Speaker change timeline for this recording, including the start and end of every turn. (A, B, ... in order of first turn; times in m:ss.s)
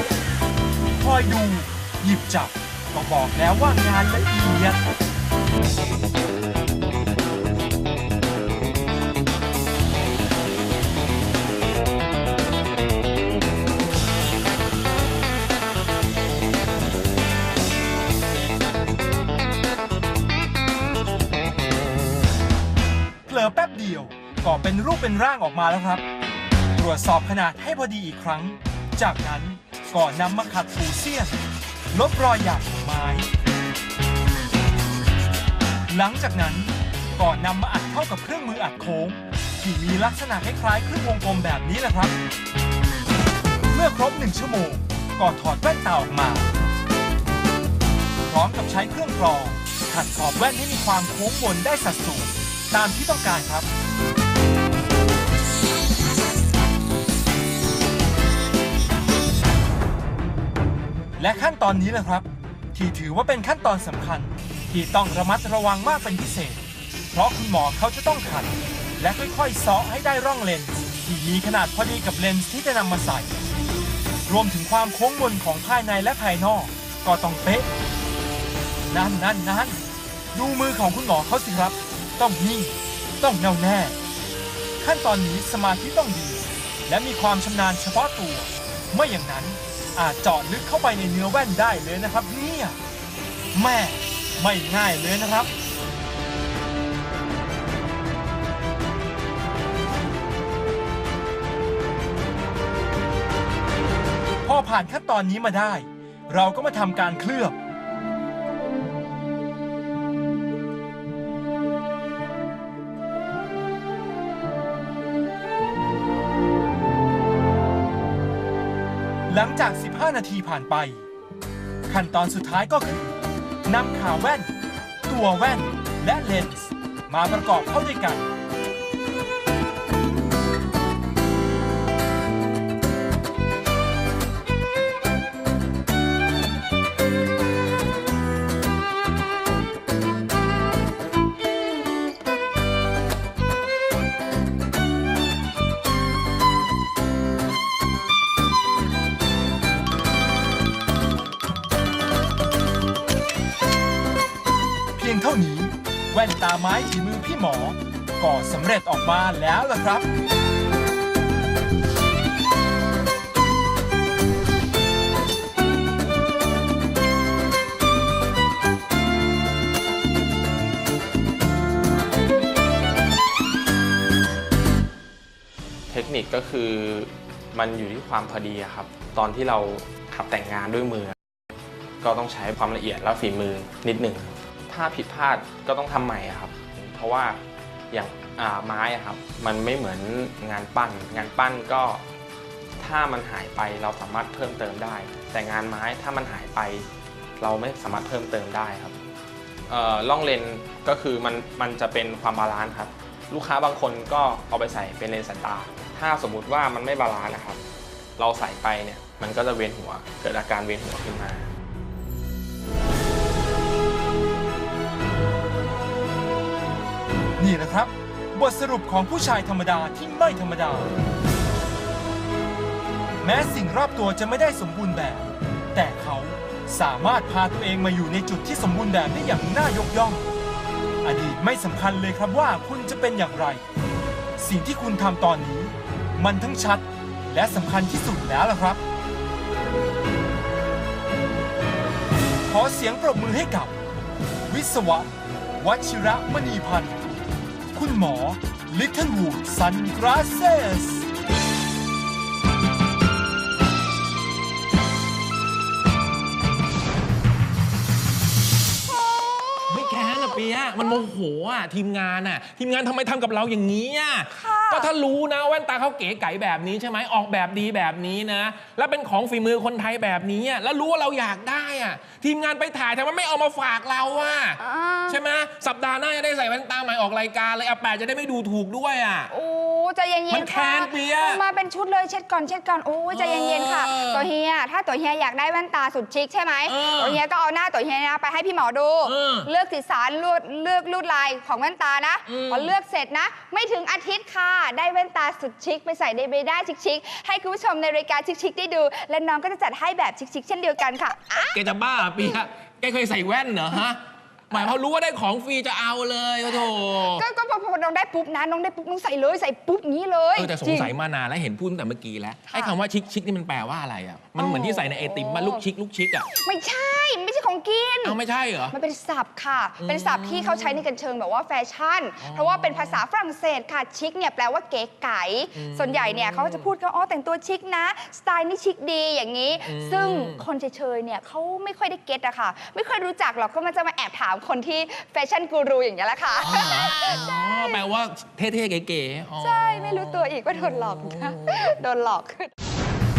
0:01.0-0:04.8 A
0:23.3-0:26.0 A
0:26.8-0:31.4 A
0:31.9-0:33.3 A
0:35.9-0:42.1 A
0:43.7-0:46.5 A
0:48.3-0:53.7 A
1:01.2-1:13.4 A
1:14.3-1:17.7 A
1:18.9-1:19.8 A
1:20.3-1:24.0 A
1:24.8-1:32.8 A
1:33.5-1:35.5 A
1:44.4-1:47.6 A
1:59.3-2:01.0 A
2:01.9-2:04.5 A
2:05.1-2:08.3 A
2:35.0-2:40.1 A
2:55.9-3:01.2 B
3:02.0-3:07.4 B
3:07.9-3:12.0 B
3:12.8-3:16.9 B
3:17.4-3:19.0 B
3:19.7-3:27.6 B
3:28.2-3:31.5 B
3:37.4-3:40.9 A
3:43.2-3:50.3 A
3:51.0-3:53.6 A
3:54.4-3:58.8 A
4:02.4-4:03.8 A
4:04.5-4:07.1 A
4:07.7-4:11.1 A
4:18.9-4:21.0 C
4:19.7-4:39.3 D
4:24.3-4:24.9 C
4:34.6-4:35.2 C
4:39.3-5:01.6 C
4:40.3-4:41.4 D
4:43.1-4:44.3 D
4:46.7-4:47.2 D
4:49.0-4:49.5 D
4:52.3-4:52.7 D
5:01.5-5:07.2 D
5:07.1-5:10.9 C
5:10.4-5:16.3 D
5:12.5-5:12.8 C
5:14.4-5:15.6 C
5:16.4-5:18.2 C
5:18.0-5:18.8 D
5:18.7-5:37.4 C
5:19.8-5:20.8 D
5:22.2-5:23.0 D
5:25.6-5:26.7 D
5:29.7-5:30.4 D
5:36.4-5:41.6 D
5:39.4-5:42.5 C